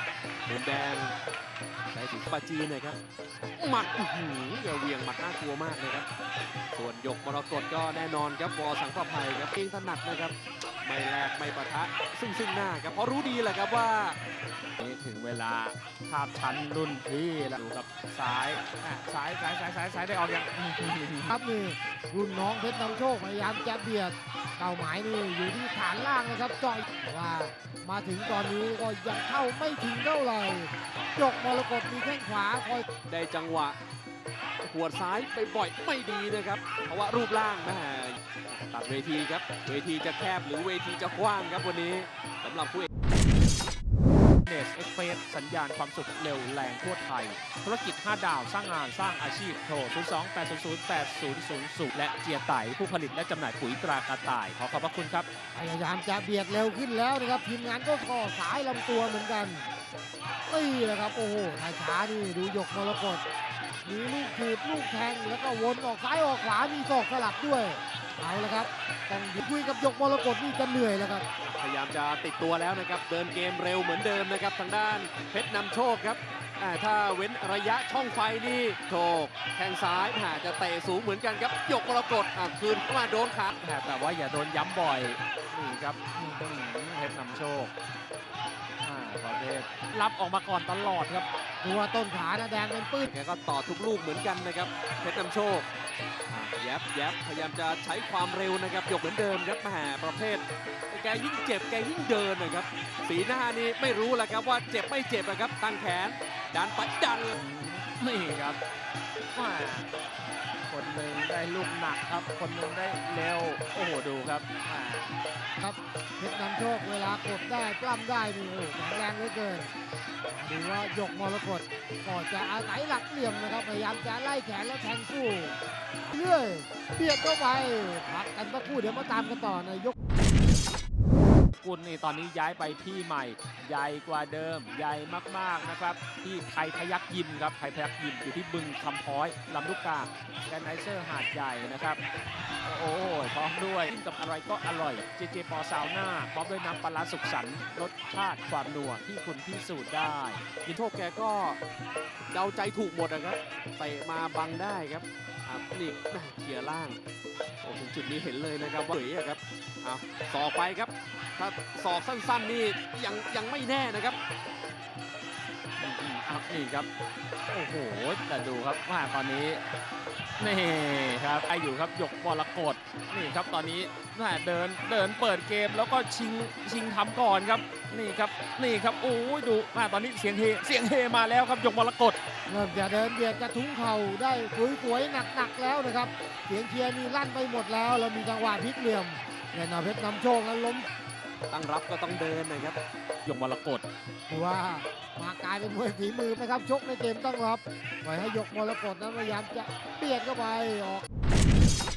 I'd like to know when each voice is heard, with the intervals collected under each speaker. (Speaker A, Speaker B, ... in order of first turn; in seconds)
Speaker A: 0.5-1.1, 1.9-3.0, 3.6-6.1, 6.7-14.2, 33.1-33.8, 34.6-42.9, 71.4-83.5, 93.1-95.7, 96.3-107.3, 150.7-151.6, 152.3-157.0, 157.6-164.2, 191.5-192.8
Speaker B: 14.8-21.3, 44.5-55.3, 83.6-87.7, 88.8-91.3, 107.3-108.6, 109.3-109.9, 110.7-115.1, 131.6-142.0, 142.6-150.4, 165.8-166.9, 167.5-169.6, 170.4-182.2, 193.3-193.8
Speaker C: 21.3-32.9, 55.5-59.7, 60.5-63.2, 63.9-71.2, 91.6-93.1, 115.6-119.7, 120.3-125.6, 126.1-129.9, 182.5-190.9, 194.3-201.1